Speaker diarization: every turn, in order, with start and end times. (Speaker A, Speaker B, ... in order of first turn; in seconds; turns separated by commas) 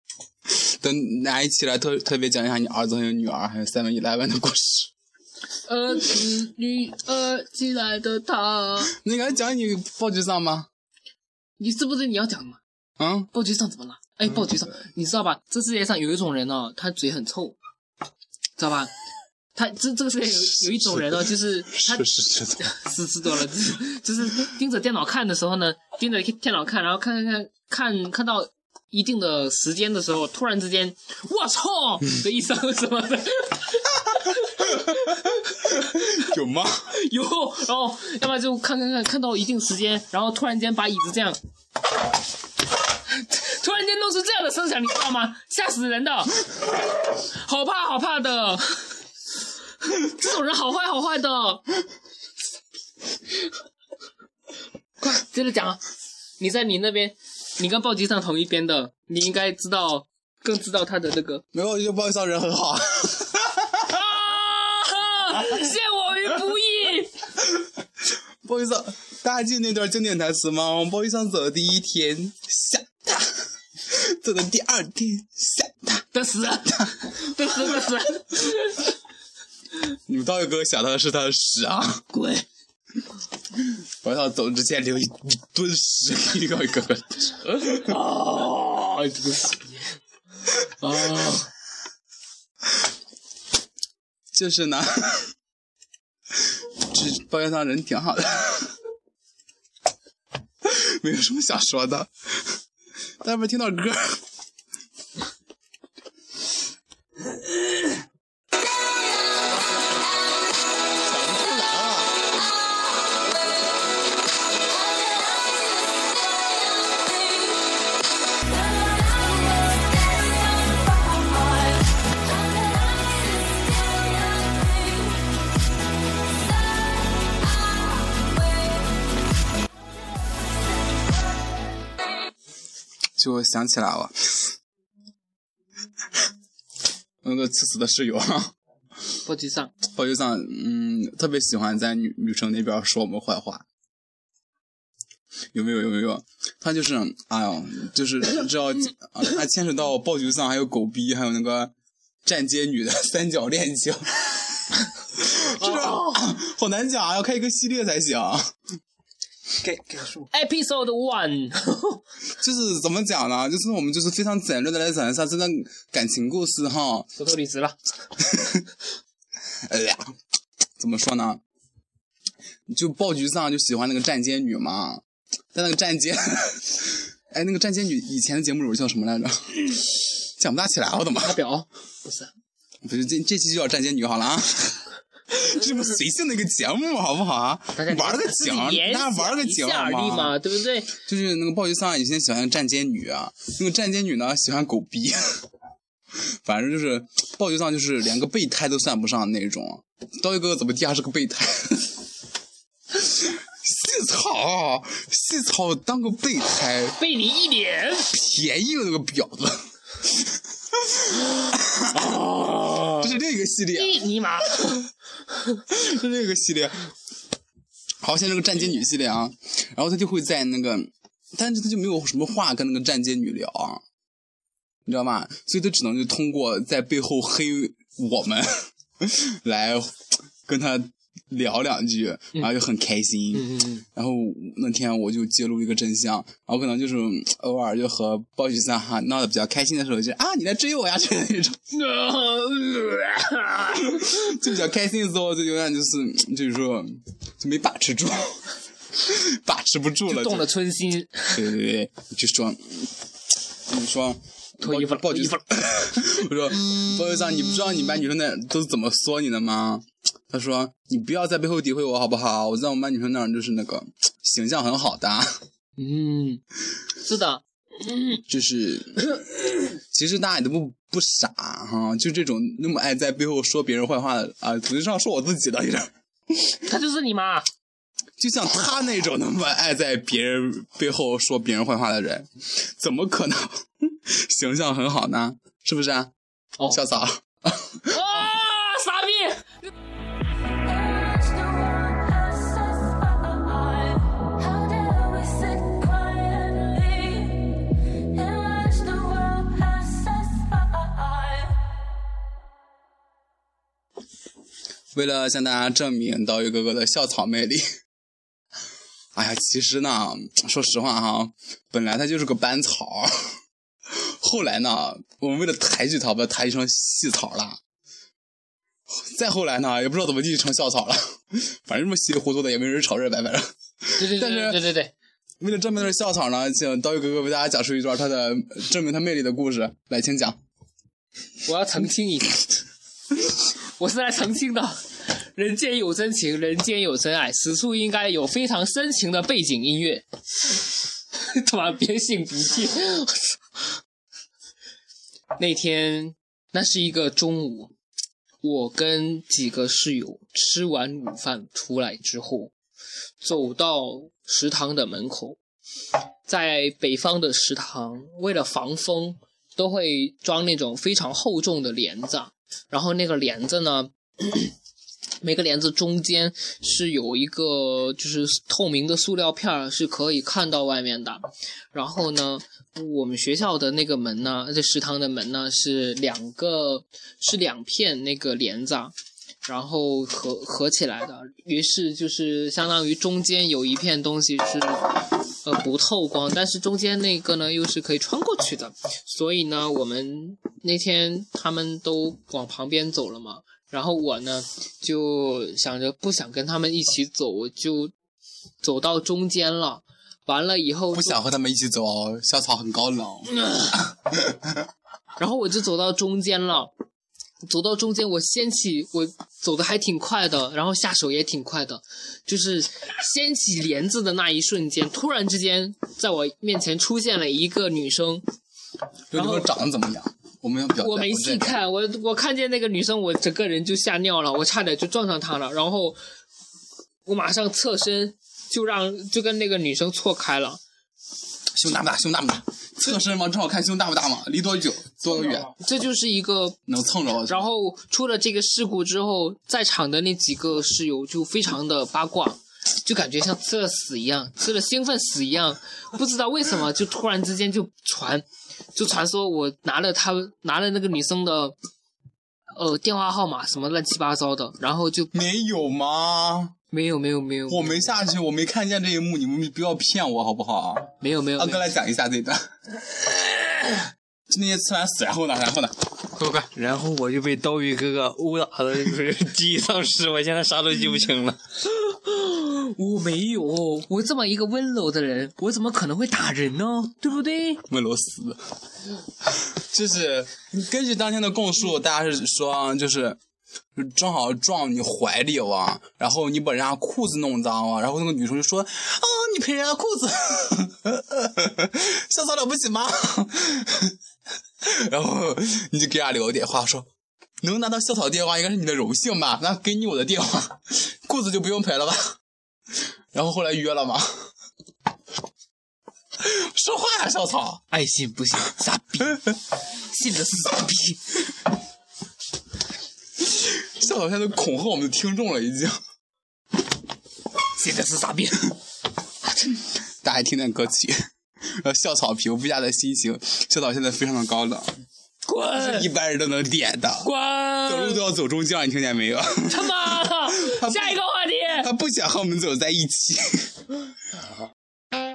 Speaker A: 0.5-4.9, Speaker B: 5.7-8.9, Speaker A: 8.8-10.7, Speaker B: 11.6-12.6, Speaker A: 13.0-13.3, Speaker B: 13.3-17.6, Speaker B: 18.6-18.9, Speaker B: 19.5-36.0, Speaker A: 20.6-22.6, Speaker A: 35.7-36.9, Speaker B: 36.9-41.4, Speaker B: 43.1-48.9, Speaker B: 49.8-51.6, Speaker B: 55.0-55.8, Speaker B: 56.4-61.4, Speaker A: 61.5-64.0, Speaker B: 63.9-67.2, Speaker A: 68.4-73.3, Speaker A: 73.8-76.0, Speaker B: 76.1-78.9, Speaker A: 80.1-82.0, Speaker B: 82.1-82.4, Speaker A: 83.6-87.6, Speaker B: 87.5-89.8, Speaker B: 90.8-91.5, Speaker A: 94.3-95.3, Speaker A: 96.5-98.7, Speaker A: 100.6-102.6, Speaker A: 103.2-104.2, Speaker A: 110.9-112.3, Speaker A: 133.2-134.5, Speaker A: 137.2-138.5, Speaker B: 139.2-139.7, Speaker A: 139.8-143.6, Speaker A: 145.5-151.7, Speaker A: 152.2-154.4, Speaker A: 155.1-158.5, Speaker B: 155.4-156.2, Speaker C: 159.6-160.3, Speaker B: 160.3-162.0, Speaker A: 162.4-167.1, Speaker B: 167.2-167.8, Speaker A: 168.2-168.6, Speaker A: 169.7-170.1, Speaker A: 170.8-171.4, Speaker A: 172.7-175.0, Speaker A: 175.5-181.4, Speaker B: 181.2-182.3, Speaker A: 182.8-190.4, Speaker B: 187.7-190.9, Speaker A: 191.0-195.4, Speaker A: 196.3-202.0, Speaker A: 202.9-207.0, Speaker B: 207.0-208.1, Speaker A: 208.1-212.0, Speaker B: 211.9-213.1, Speaker A: 213.0-214.0, Speaker B: 213.7-214.9, Speaker A: 215.7-216.8, Speaker A: 218.0-223.8, Speaker A: 224.8-241.6, Speaker B: 233.3-233.8, Speaker B: 241.7-244.2, Speaker A: 243.7-248.4, Speaker A: 248.9-250.5, Speaker B: 250.1-251.4, Speaker A: 251.3-252.9, Speaker A: 253.7-265.4, Speaker B: 254.6-255.4, Speaker B: 265.8-266.4, Speaker B: 267.0-268.2, Speaker A: 268.3-269.1, Speaker A: 269.9-275.9, Speaker B: 276.6-277.4, Speaker A: 278.2-286.1, Speaker A: 286.7-288.1, Speaker B: 287.9-289.5, Speaker B: 290.7-301.5, Speaker A: 304.9-307.6, Speaker A: 309.1-313.1, Speaker A: 313.9-317.6, Speaker A: 318.9-324.6, Speaker B: 323.9-324.9, Speaker A: 325.4-330.4, Speaker B: 331.4-332.5, Speaker B: 333.8-340.0, Speaker B: 341.1-343.4, Speaker B: 345.4-347.7, Speaker B: 348.4-352.5, Speaker B: 353.2-355.4, Speaker B: 356.3-364.5, Speaker B: 365.2-378.9, Speaker B: 379.4-397.9, Speaker B: 398.6-401.2, Speaker A: 400.9-403.3, Speaker B: 403.4-403.8, Speaker A: 404.1-404.6, Speaker B: 405.2-406.7, Speaker B: 407.4-418.2, Speaker A: 419.1-421.5, Speaker B: 419.1-419.5, Speaker B: 420.8-426.0, Speaker B: 427.1-430.6, Speaker A: 431.5-435.5, Speaker B: 435.1-436.6, Speaker A: 436.7-437.4, Speaker B: 437.2-451.6, Speaker B: 452.6-455.1, Speaker A: 455.1-456.5, Speaker B: 456.7-457.9, Speaker A: 457.5-462.4, Speaker B: 461.0-461.7, Speaker A: 464.3-465.7, Speaker C: 466.1-471.4, Speaker B: 471.7-477.6, Speaker A: 477.7-478.4, Speaker A: 479.2-483.2, Speaker A: 483.8-493.9, Speaker A: 494.6-496.9, Speaker A: 497.4-502.1, Speaker A: 503.1-504.2, Speaker A: 506.2-507.6, Speaker B: 507.7-511.0, Speaker A: 513.2-515.8, Speaker B: 517.5-518.5, Speaker A: 520.0-524.7, Speaker B: 525.2-525.9, Speaker A: 525.5-527.1, Speaker B: 527.0-528.0, Speaker A: 527.6-531.0, Speaker B: 529.5-531.7, Speaker A: 531.6-533.5